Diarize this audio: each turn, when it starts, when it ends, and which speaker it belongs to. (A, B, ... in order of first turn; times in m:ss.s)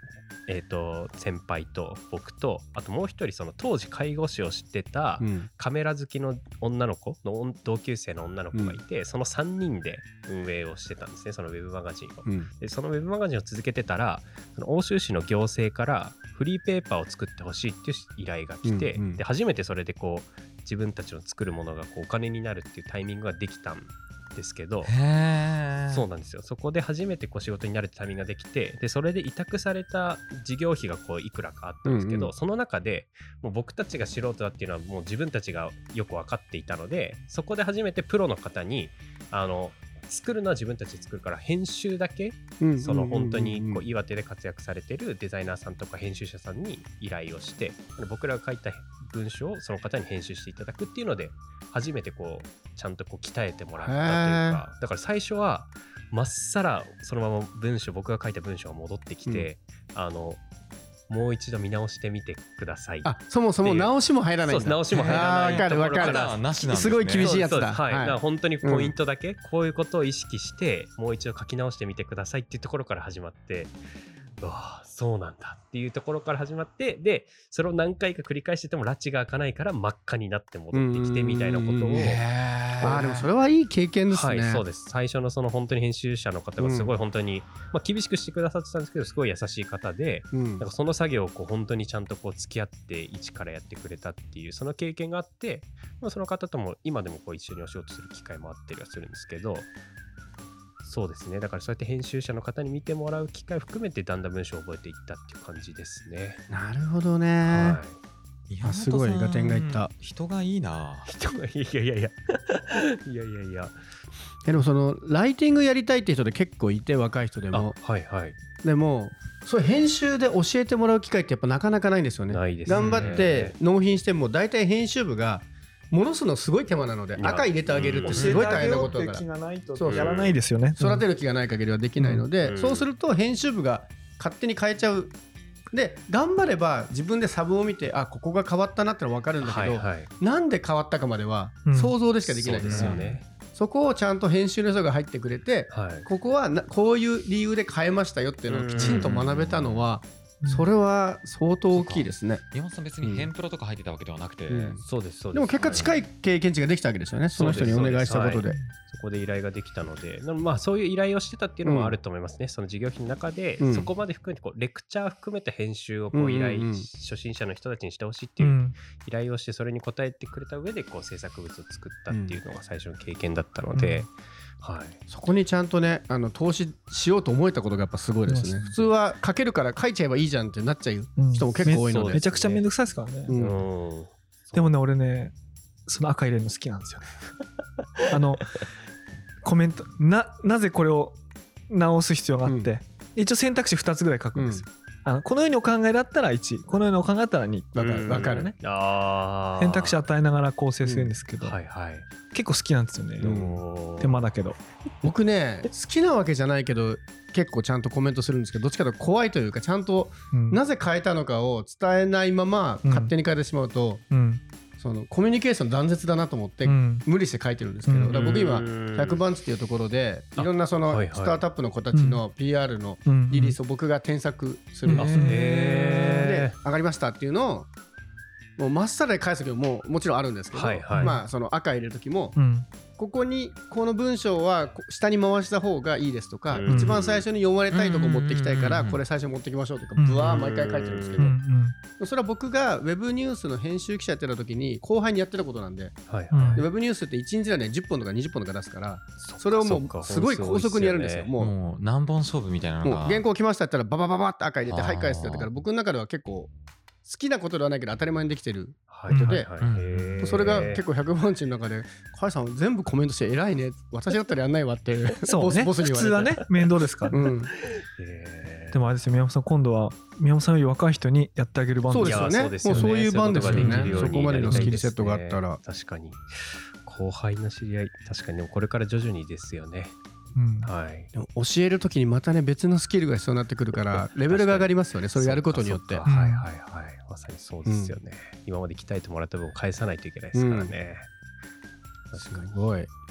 0:00.5-0:24.9 A
0:05.2-0:05.5 B
0:08.5-0:08.8 B
0:18.6-0:19.2 B
0:24.8-0:26.1 C
0:25.9-1:00.4 A
0:31.8-0:32.3 B
0:42.6-0:43.8 B
0:53.8-0:54.6 B
1:01.1-1:06.5 A
1:03.0-1:08.9 B
1:04.9-1:07.4 C
1:07.2-1:13.8 A
1:14.4-1:22.2 A
1:20.7-1:22.3 B
1:21.9-1:23.1 C
1:22.8-1:24.6 B
1:22.8-1:23.2 A
1:24.1-1:39.7 A
1:26.6-1:26.9 B
1:30.3-1:30.6 B
1:40.8-1:46.4 A
1:46.5-1:47.8 B
1:47.4-1:48.0 A
1:48.5-1:51.1 C
1:48.6-1:49.9 B
1:51.1-1:53.8 A
1:54.4-1:57.8 B
1:57.5-1:58.4 A
1:58.6-2:10.1 B
2:02.3-2:03.6 A
2:07.2-2:08.8 A
2:08.1-2:11.0 D
2:09.8-2:10.4 A
2:10.8-2:15.1 B
2:12.0-2:12.3 D
2:12.4-2:12.8 A
2:15.7-2:32.4 B
2:19.4-2:20.1 A
2:21.6-2:22.0 D
2:22.3-2:23.2 A
2:22.6-2:23.2 C
2:25.7-2:26.1 A
2:28.5-2:29.1 A
2:28.7-2:29.9 C
2:30.4-2:30.7 D
2:31.7-2:34.8 C
2:33.0-2:33.3 B
2:34.5-2:38.6 B
2:34.8-2:36.0 A
2:37.3-2:55.0 A
2:38.4-2:38.7 D
2:41.6-2:42.0 B
2:43.6-2:43.9 B
2:46.1-2:46.9 B
2:48.4-2:48.7 D
2:52.1-2:52.4 B
2:53.7-2:54.1 D
2:55.1-3:02.2 B
2:58.3-2:58.9 D
3:01.2-3:03.4 D
3:01.6-3:02.6 A
3:03.3-3:03.6 B
3:03.3-3:04.7 A
3:04.5-3:05.3 D
3:05.8-3:07.0 D
3:08.1-3:08.6 D
3:09.4-3:18.5 D
3:12.4-3:12.7 B
3:14.3-3:14.6 B
3:17.7-3:18.5 B
3:17.8-3:20.0 A
3:19.6-3:21.6 D
3:20.8-3:21.1 B
3:21.4-3:22.1 A
3:22.3-3:23.3 D
3:23.2-3:24.2 A
3:23.2-3:23.6 B
3:24.0-3:24.6 D
3:25.0-3:34.0 B
3:30.3-3:30.6 D
3:32.8-3:33.1 D
3:34.1-3:34.4 D
3:34.8-3:47.7 B
3:36.6-3:37.0 D
3:37.8-3:38.2 D
3:38.1-3:39.2 A
3:40.4-3:41.4 A
3:41.9-3:42.2 D
3:43.0-3:43.6 D
3:44.8-3:45.8 D
3:44.9-3:45.3 C
3:45.2-3:46.5 A
3:48.6-3:52.4 B
3:50.5-3:51.2 A
3:50.9-3:51.2 D
3:52.4-3:52.6 D
3:53.0-4:01.4 B
3:56.5-3:57.2 A
3:56.7-3:56.9 D
3:57.7-3:59.0 C
4:00.0-4:00.3 D
4:00.2-4:01.3 A
4:01.2-4:01.8 D
4:02.0-4:06.0 B
4:06.1-4:06.7 A
4:06.3-4:06.6 D
4:06.5-4:11.5 B
4:09.2-4:11.3 A
4:11.4-4:13.2 C
4:12.8-4:16.5 B
4:14.7-4:15.5 C
4:17.0-4:19.5 B
4:18.9-4:20.8 A
4:19.1-4:19.4 D
4:19.6-4:20.7 C
4:20.2-4:26.4 B
4:25.2-4:27.2 D
4:27.1-4:27.5 B
4:27.7-4:28.8 A
4:28.7-4:34.8 D
4:31.9-4:35.6 B
4:32.0-4:40.0 A
4:40.3-4:40.7 D
4:40.6-4:41.1 A
4:41.1-4:46.0 B
4:43.7-4:51.1 A
4:46.0-4:46.5 D
4:47.6-4:47.9 B
4:50.3-4:50.7 B
4:52.1-4:52.5 A
4:52.1-4:52.9 B